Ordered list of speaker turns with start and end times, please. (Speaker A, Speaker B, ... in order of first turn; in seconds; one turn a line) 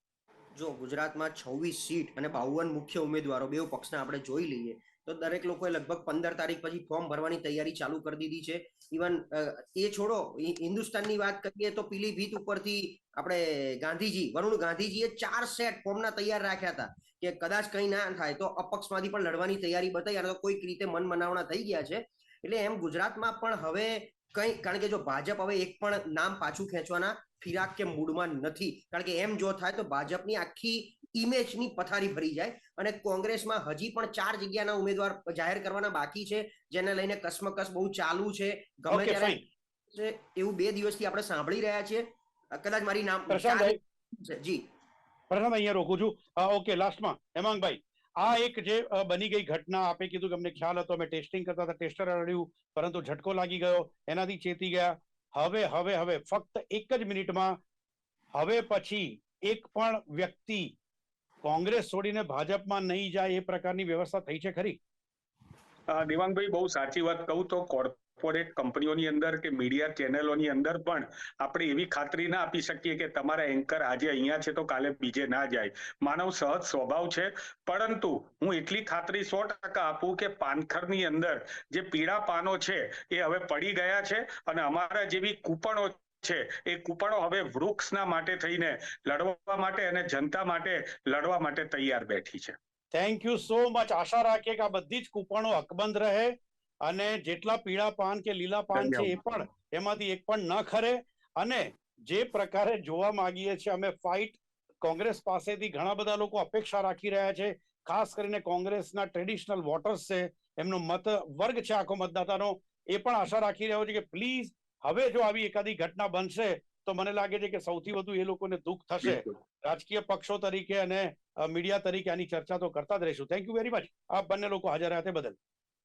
Speaker A: 0.6-39.4
Speaker B: 38.9-39.4
Speaker A: 39.9-42.0
Speaker A: 42.6-44.6
Speaker B: 43.3-43.8
Speaker B: 45.3-57.5
Speaker B: 58.4-60.7
Speaker B: 61.4-64.8
Speaker C: 65.9-92.6
Speaker B: 92.9-96.3
Speaker B: 96.9-125.4
Speaker C: 98.8-99.1
Speaker C: 119.0-119.3